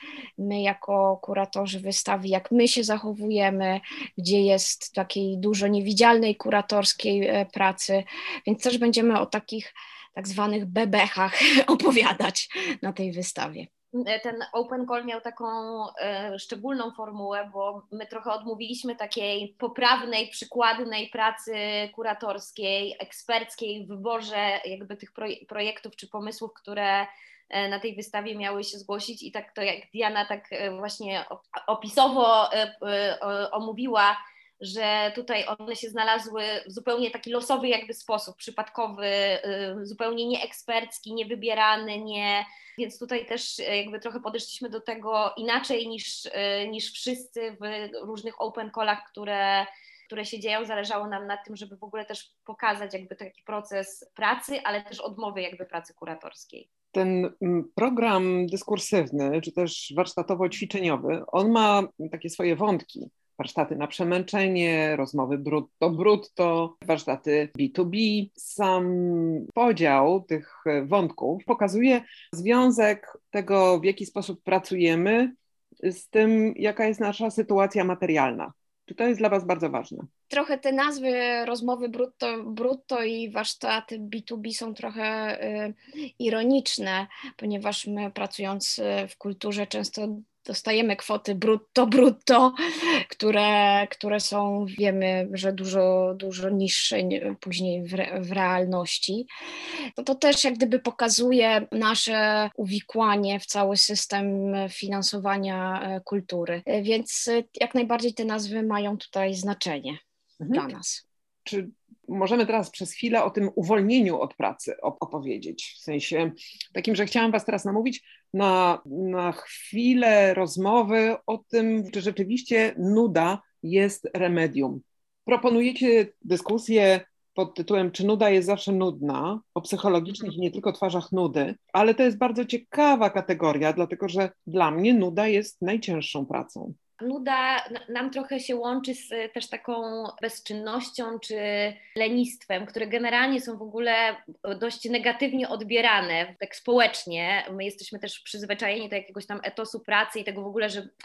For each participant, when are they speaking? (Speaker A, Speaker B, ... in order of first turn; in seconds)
Speaker A: 0.4-13.7, 80.3-99.3, 100.0-110.0, 110.5-111.0
Speaker B: 13.9-56.7, 137.0-150.9
Speaker C: 56.9-80.1, 110.4-110.7, 111.5-136.7